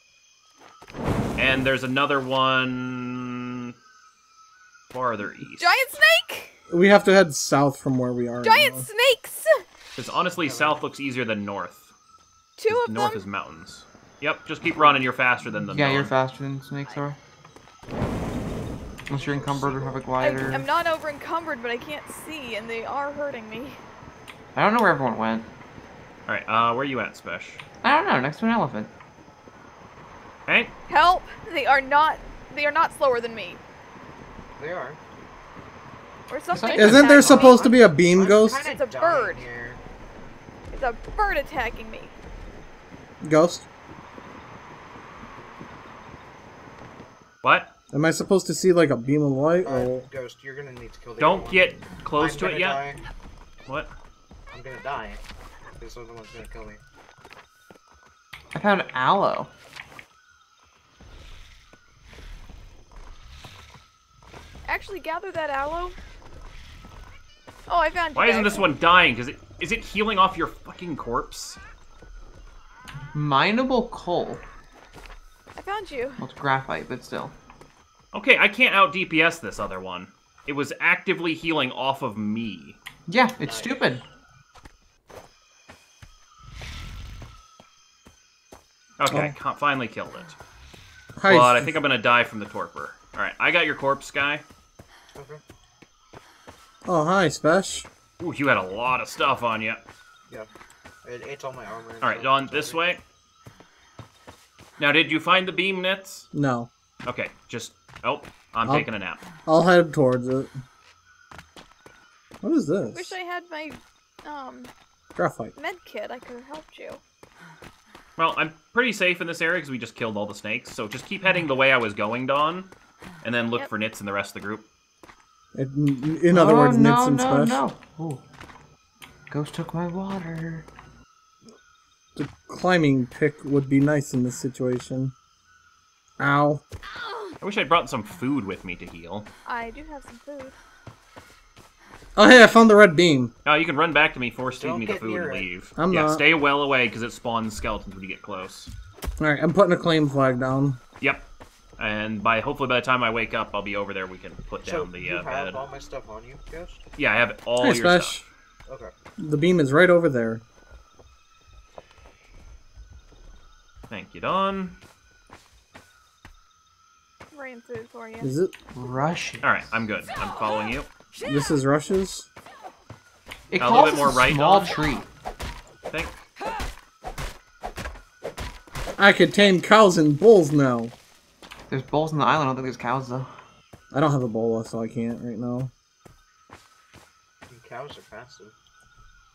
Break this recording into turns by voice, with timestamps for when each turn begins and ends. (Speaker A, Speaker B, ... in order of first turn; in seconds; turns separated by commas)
Speaker A: 1.4-3.7, Speaker A: 4.9-5.8, Speaker B: 5.6-6.6, Speaker C: 6.7-8.9, Speaker B: 8.4-9.6, Speaker A: 9.9-11.9, Speaker D: 10.4-10.8, Speaker B: 12.6-13.2, Speaker A: 12.7-16.1, Speaker E: 15.7-17.2, Speaker D: 19.1-20.2, Speaker E: 19.1-20.6, Speaker B: 20.2-23.8, Speaker E: 24.6-25.4, Speaker A: 26.3-27.6, Speaker E: 27.8-28.9, Speaker A: 30.5-30.7, Speaker B: 30.9-33.6, Speaker D: 34.6-35.0, Speaker B: 36.3-37.8, Speaker E: 36.5-37.7, Speaker C: 36.7-38.6, Speaker D: 37.7-39.8, Speaker B: 38.6-39.4, Speaker B: 40.7-42.1, Speaker C: 43.2-43.6, Speaker A: 47.4-47.7, Speaker C: 47.9-50.1, Speaker D: 49.6-53.0, Speaker A: 51.2-52.8, Speaker D: 54.5-55.2, Speaker D: 55.8-56.8, Speaker E: 58.5-59.5, Speaker B: 64.7-66.0, Speaker B: 67.7-68.7, Speaker A: 68.2-71.6, Speaker E: 73.1-74.4, Speaker B: 75.5-76.2, Speaker E: 76.2-77.3, Speaker A: 78.1-82.8, Speaker E: 83.1-84.0, Speaker D: 83.4-83.9, Speaker A: 89.0-90.3, Speaker C: 89.1-89.3, Speaker C: 91.2-91.7, Speaker A: 91.3-94.4, Speaker D: 95.2-95.4, Speaker C: 96.8-97.9, Speaker A: 98.2-99.8, Speaker D: 101.0-102.8, Speaker A: 102.0-103.0, Speaker A: 104.8-106.3, Speaker C: 106.3-106.7, Speaker A: 107.0-109.2, Speaker C: 109.5-110.5, Speaker C: 112.4-113.1, Speaker B: 112.9-114.7, Speaker C: 115.2-115.5, Speaker B: 115.5-117.0, Speaker A: 118.2-122.7, Speaker A: 123.2-124.7, Speaker C: 125.5-127.6, Speaker E: 126.3-128.2, Speaker E: 129.3-130.7, Speaker C: 132.2-135.1, Speaker C: 136.2-136.6, Speaker A: 137.4-139.3, Speaker B: 139.4-140.6, Speaker C: 142.2-143.3, Speaker A: 143.4-148.7, Speaker D: 144.6-145.5, Speaker C: 145.8-146.2, Speaker C: 149.2-150.8, Speaker A: 151.0-151.3, Speaker A: 151.8-155.6, Speaker D: 154.6-156.8, Speaker A: 157.0-158.2, Speaker C: 157.6-158.2, Speaker D: 158.7-158.9, Speaker C: 159.2-160.4, Speaker A: 163.9-164.8, Speaker B: 167.3-168.3, Speaker C: 168.2-168.5, Speaker E: 168.7-169.5, Speaker A: 169.4-170.9, Speaker C: 171.3-172.3, Speaker E: 173.5-175.1, Speaker A: 173.6-174.8, Speaker A: 175.9-176.2, Speaker C: 179.0-180.9, Speaker E: 181.7-183.3, Speaker C: 183.9-185.7, Speaker D: 187.5-188.5